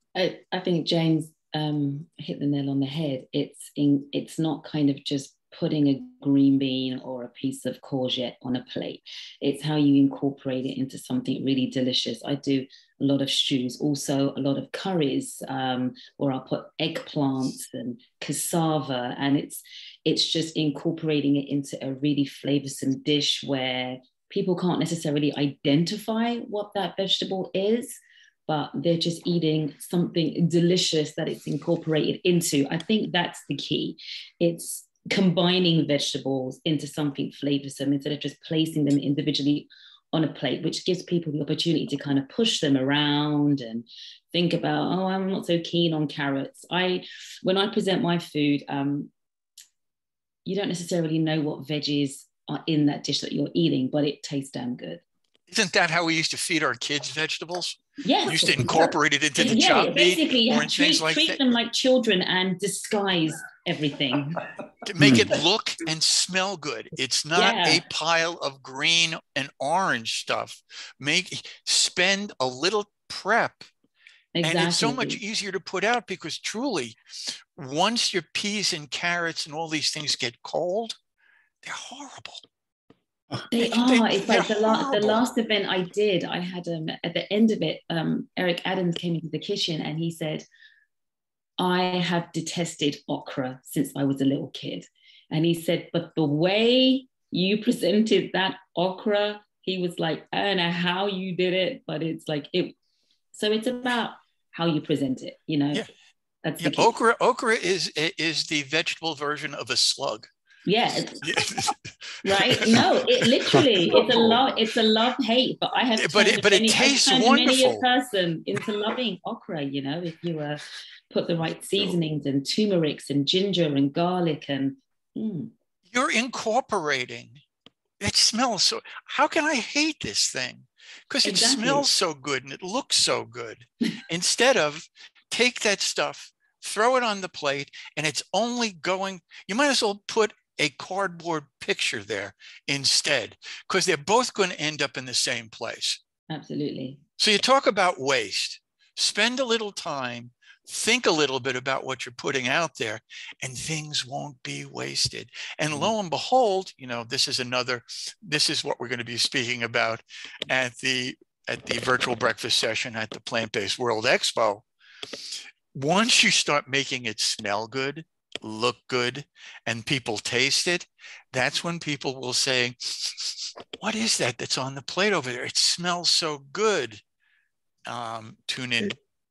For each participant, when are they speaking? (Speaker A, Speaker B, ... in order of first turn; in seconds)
Speaker A: 0.1-49.1, 50.4-55.0, 58.0-64.4, 67.3-67.8, 74.3-75.2, 83.5-90.4, 91.6-102.7, 103.3-105.8, 106.4-106.9, 110.7-111.3, 112.2-125.5, 131.2-131.8, 146.3-147.0
Speaker B: 55.5-61.4, 64.8-73.7, 74.4-77.0, 77.5-81.0, 81.6-82.4, 83.5-85.2, 106.6-110.3, 111.2-114.4, 115.9-117.8, 125.9-127.4, 128.0-146.0, 147.2-164.7, 165.7-177.0, 177.8-179.0